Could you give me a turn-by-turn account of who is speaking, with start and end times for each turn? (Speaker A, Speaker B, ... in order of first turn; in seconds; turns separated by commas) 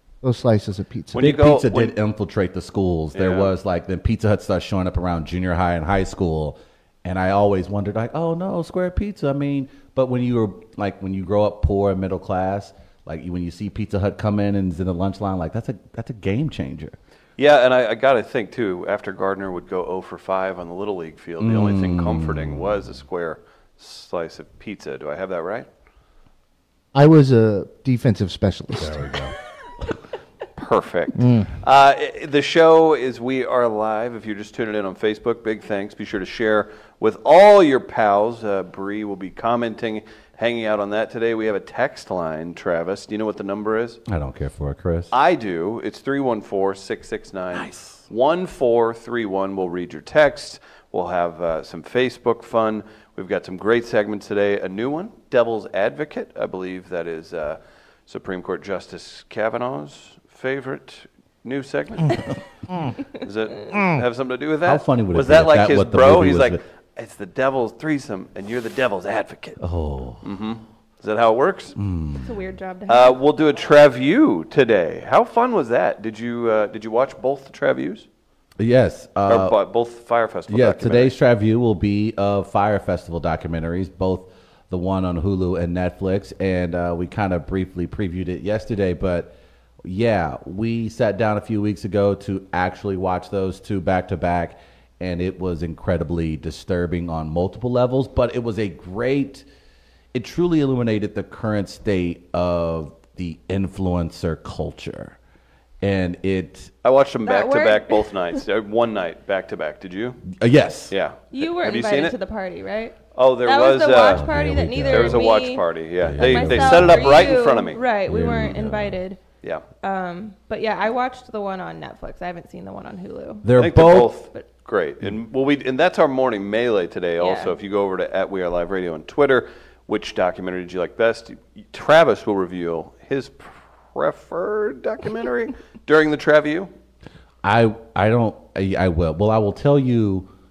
Speaker A: 0.2-1.2, Speaker B: 1.1-1.9, Speaker C: 1.2-16.9, Speaker B: 3.1-3.5, Speaker B: 17.4-25.7, Speaker C: 21.4-22.8, Speaker A: 26.9-29.1, Speaker C: 28.8-29.3, Speaker B: 30.6-44.0, Speaker A: 31.2-31.5, Speaker C: 44.1-45.1, Speaker B: 45.1-62.3, Speaker C: 47.5-48.0, Speaker C: 62.1-62.9, Speaker B: 63.0-69.6, Speaker C: 64.7-66.6, Speaker C: 69.6-70.2, Speaker B: 70.2-71.8, Speaker C: 71.8-72.3, Speaker D: 72.2-73.2, Speaker B: 72.9-78.0, Speaker C: 78.6-79.6, Speaker B: 79.2-81.1, Speaker C: 80.5-99.4, Speaker C: 100.1-105.2, Speaker C: 105.8-106.7, Speaker B: 106.8-110.2, Speaker D: 107.2-108.1, Speaker C: 110.3-110.9, Speaker B: 110.9-112.2, Speaker D: 111.3-115.7, Speaker B: 113.1-114.2, Speaker C: 114.1-115.3, Speaker B: 114.9-117.8, Speaker C: 116.0-117.4, Speaker D: 116.2-119.2, Speaker C: 118.0-119.0, Speaker D: 119.8-123.5, Speaker C: 123.4-124.1, Speaker B: 123.5-136.7, Speaker D: 127.2-127.5, Speaker C: 137.4-140.3